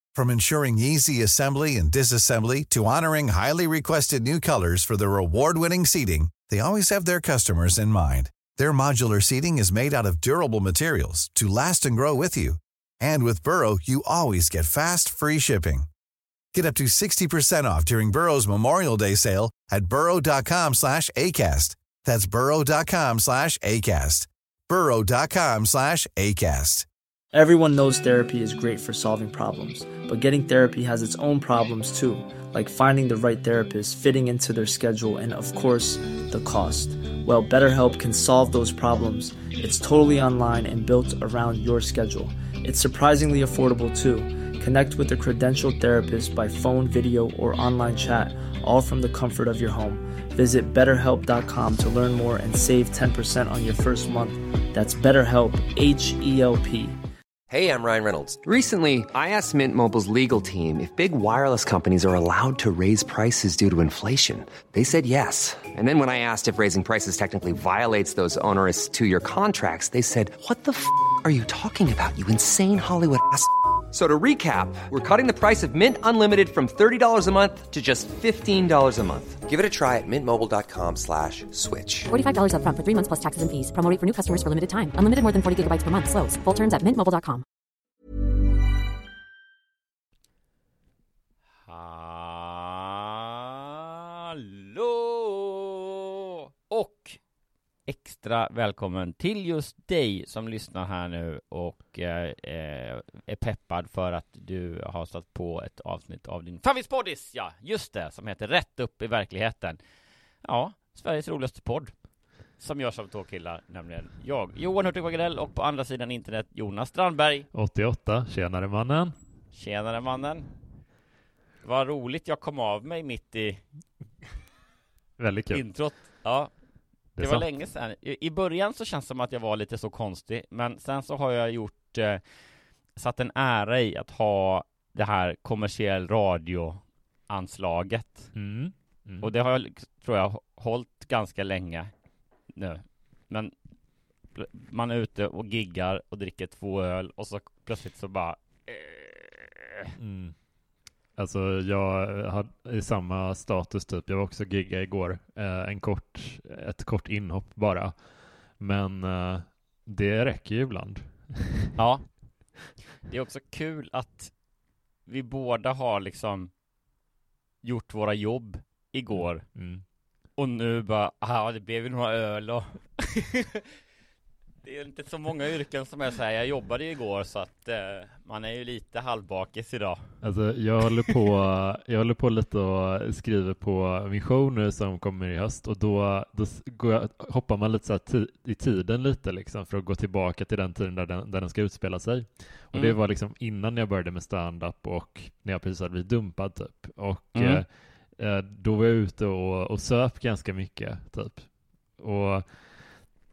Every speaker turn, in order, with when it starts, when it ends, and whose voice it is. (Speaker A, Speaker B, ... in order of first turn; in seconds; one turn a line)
Speaker A: 0.1-15.9
Speaker A: 16.5-26.9
Speaker B: 27.3-56.9
Speaker C: 57.5-82.1
Speaker D: 82.1-87.4
Speaker E: 91.6-93.4
Speaker E: 94.3-96.2
Speaker E: 96.7-97.2
Speaker E: 97.8-109.8
Speaker E: 110.4-111.9
Speaker E: 112.6-117.5
Speaker F: 117.5-119.1
Speaker E: 119.5-120.5
Speaker E: 121.6-123.6
Speaker F: 125.2-125.6
Speaker E: 125.5-126.5
Speaker F: 127.2-127.5
Speaker E: 127.2-132.2
Speaker E: 132.9-138.3
Speaker F: 138.3-139.3
Speaker E: 139.2-141.9
Speaker E: 142.5-143.5
Speaker E: 144.3-149.9
Speaker F: 150.0-150.3
Speaker F: 151.2-161.7
Speaker E: 161.8-162.2
Speaker E: 163.1-164.3
Speaker E: 165.1-166.5
Speaker E: 167.6-169.5
Speaker F: 169.4-169.8
Speaker E: 170.4-173.7
Speaker E: 174.6-180.0
Speaker F: 180.2-203.1
Speaker E: 197.3-197.6